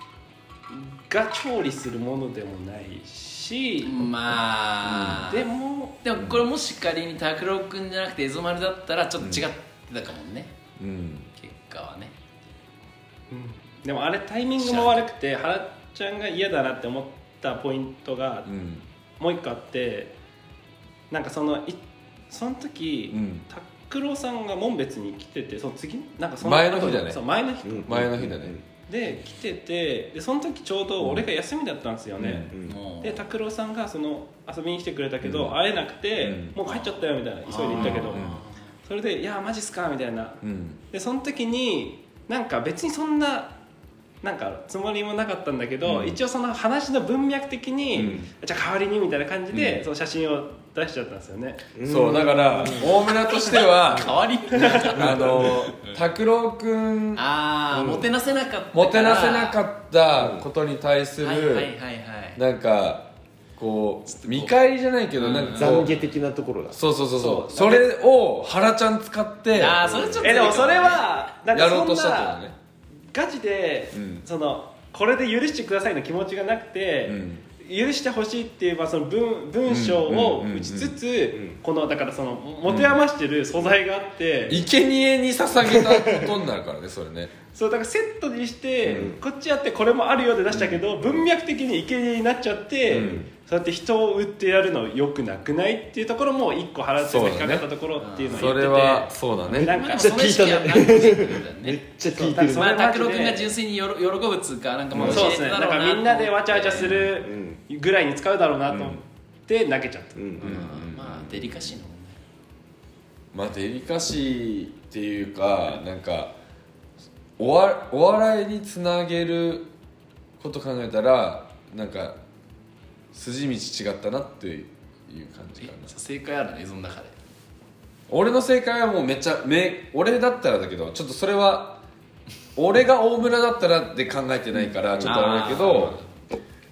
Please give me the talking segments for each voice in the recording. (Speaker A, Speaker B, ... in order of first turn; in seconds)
Speaker A: 0.7-4.1, 5.3-6.0, 13.3-18.5, 19.2-20.1, 21.1-28.2, 28.9-38.2, 38.9-43.6, 44.2-51.7, 54.6-55.1, 67.2-67.9, 70.2-72.4, 73.1-84.7, 87.5-100.3, 102.1-103.5, 105.0-110.2
Speaker B: 3.8-5.5, 6.0-10.5, 11.3-12.1, 14.6-15.1, 32.6-33.3, 36.6-38.7, 53.5-56.0, 57.1-59.6, 61.2-62.4, 64.1-64.6, 65.2-66.1, 69.5-71.2, 98.0-99.0, 99.6-101.8, 102.4-107.0, 110.4-112.2, 125.6-127.2, 135.0-136.1
Speaker C: 4.8-5.2, 6.2-6.5, 9.2-9.5, 10.8-11.3, 18.5-18.9, 23.1-23.4, 26.4-27.2, 27.9-28.6, 32.2-32.5, 35.2-35.5, 36.2-36.6, 37.7-38.4, 40.4-40.8, 45.9-46.2, 47.9-48.3, 49.5-49.9, 51.8-57.2, 58.7-61.7, 62.4-66.0, 66.7-69.9, 71.5-72.5, 73.9-74.2, 77.0-77.5, 79.7-81.0, 82.7-83.0, 84.5-87.3, 88.9-89.1, 90.5-90.8, 92.9-93.2, 97.0-97.7, 98.3-99.7, 108.7-109.0, 110.4-111.7, 113.3-116.4, 117.4-119.7, 120.4-122.2, 123.1-125.9, 128.1-131.8, 132.6-136.0
Speaker D: 27.6-28.6, 32.5-32.8, 47.9-48.2, 51.8-53.0, 57.7-58.1, 60.1-60.5, 65.5-66.8, 69.9-70.2, 88.9-89.2, 92.9-93.3, 99.5-102.7, 105.0-105.2, 107.1-107.6, 110.2-110.6, 134.6-135.9